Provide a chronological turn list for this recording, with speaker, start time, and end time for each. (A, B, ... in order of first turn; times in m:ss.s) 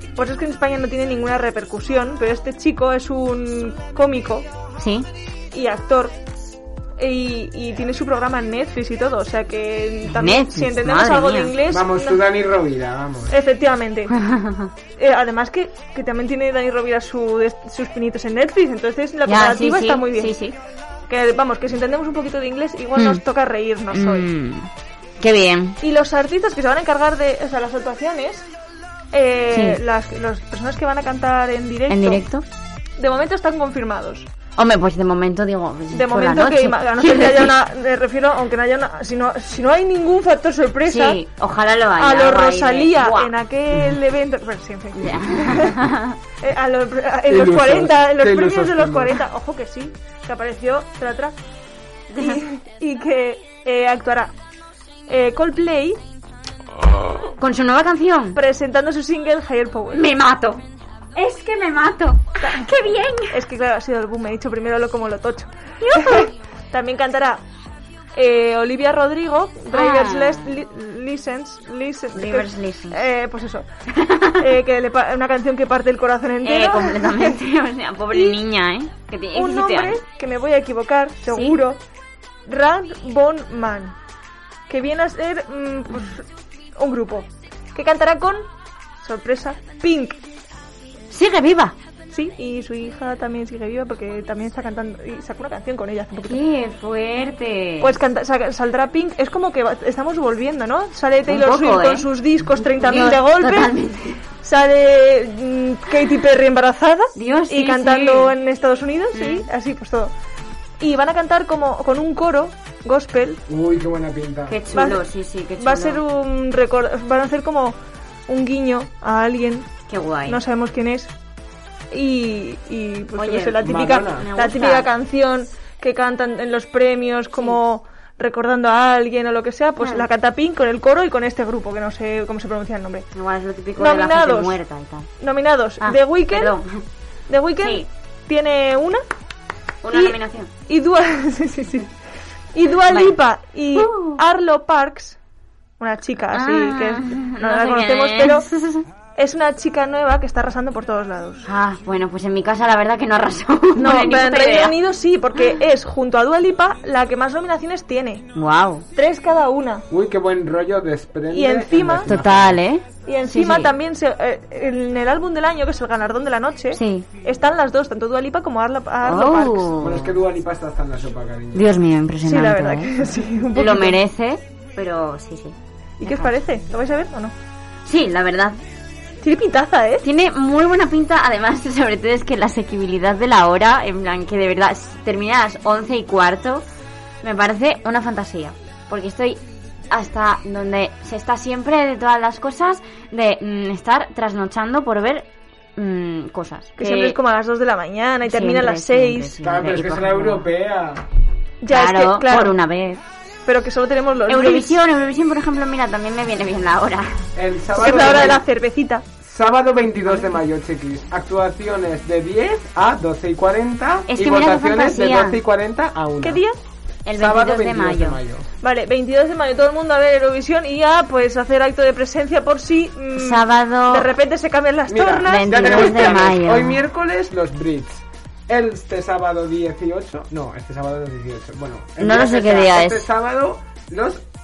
0:00.2-0:04.5 A
0:04.8-0:05.1 B
0:05.5-0:06.2 A
0:07.0-0:12.2 A
0:10.1-0:11.5 B
0:11.7-0:13.3 C
0:13.3-0:14.1 A
0:14.1-0:14.7 B
0:15.0-0:20.4 A
0:19.2-0:20.6 B
0:21.1-0:24.3 A
0:23.0-0:23.2 B
0:23.9-0:25.8 B
0:25.8-0:28.5 A
0:29.1-0:32.2 A
0:29.5-0:29.8 B
0:31.9-0:32.4 B
0:33.0-0:34.3 A
0:34.6-0:37.5 B
0:35.9-0:41.2 A
0:40.8-0:43.3 B
0:42.0-0:45.8 A
0:44.9-0:46.2 B
0:46.4-0:51.4 A
0:47.3-0:49.2 C
0:52.1-0:52.4 B
0:52.2-0:54.3 A
0:55.1-0:56.0 A
0:57.4-0:58.4 B
0:58.3-1:00.1 A
0:59.9-1:00.6 B
1:01.1-1:03.4 B
1:02.4-1:02.7 A
1:03.3-1:07.4 A
1:05.8-1:06.3 B
1:08.1-1:13.7 A
1:09.7-1:10.6 B
1:12.1-1:13.0 B
1:13.9-1:14.4 B
1:14.4-1:17.4 A
1:16.4-1:20.0 B
1:18.1-1:18.4 A
1:19.3-1:21.8 A
1:21.3-1:21.6 B
1:22.4-1:24.0 A
1:24.7-1:28.5 A
1:29.0-1:30.2 A
1:31.1-1:31.8 B
1:32.1-1:36.4 A
1:36.2-1:38.0 B
1:37.8-1:43.7 A
1:41.3-1:44.2 B
1:44.4-1:50.1 A
1:47.1-1:48.3 B
1:49.1-1:49.5 B
1:50.8-1:53.4 A
1:53.5-1:54.6 C
1:54.5-1:56.0 B
1:54.7-1:55.0 A
1:55.6-1:59.7 A
1:59.9-2:00.4 B
2:00.2-2:01.1 A
2:01.9-2:13.1 A
2:03.1-2:04.9 B
2:03.6-2:04.3 C
2:09.8-2:10.1 B
2:13.1-2:15.1 B
2:13.8-2:14.6 A
2:15.2-2:16.6 A
2:15.8-2:16.8 B
2:17.3-2:19.0 A
2:17.6-2:17.9 B
2:19.8-2:20.5 B
2:19.9-2:21.9 A
2:22.5-2:25.2 A
2:22.9-2:23.2 B
2:23.7-2:24.2 B
2:25.8-2:28.5 A
2:26.3-2:28.8 B
2:29.2-2:31.5 A
2:31.4-2:34.8 B
2:33.8-2:38.3 A
2:38.3-2:38.8 B
2:38.9-2:39.8 A
2:39.9-2:42.6 C
2:41.3-2:42.1 A
2:42.0-2:43.7 B
2:43.0-2:49.7 A
2:46.7-2:47.1 B
2:49.0-2:50.2 B
2:49.8-2:51.8 C
2:51.5-2:56.3 B
2:52.2-2:54.0 A
2:56.0-2:57.3 A
2:57.8-2:58.6 B
2:59.2-3:00.0 A
3:00.0-3:06.6 B
3:07.2-3:17.2 B
3:16.8-3:19.4 A
3:18.3-3:20.5 B
3:19.4-3:21.1 C
3:21.6-3:22.5 A
3:21.7-3:23.0 B
3:23.4-3:24.8 A
3:24.3-3:27.3 B
3:27.3-3:28.4 C
3:27.7-3:29.1 A
3:27.8-3:28.3 B
3:29.2-3:36.4 C
3:34.1-3:35.4 B
3:36.2-3:36.6 A
3:37.0-3:38.2 B
3:37.1-3:38.4 C
3:38.6-3:46.2 A
3:43.1-3:44.1 B
3:44.9-3:54.2 C
3:45.2-3:46.8 B
3:52.0-3:53.1 B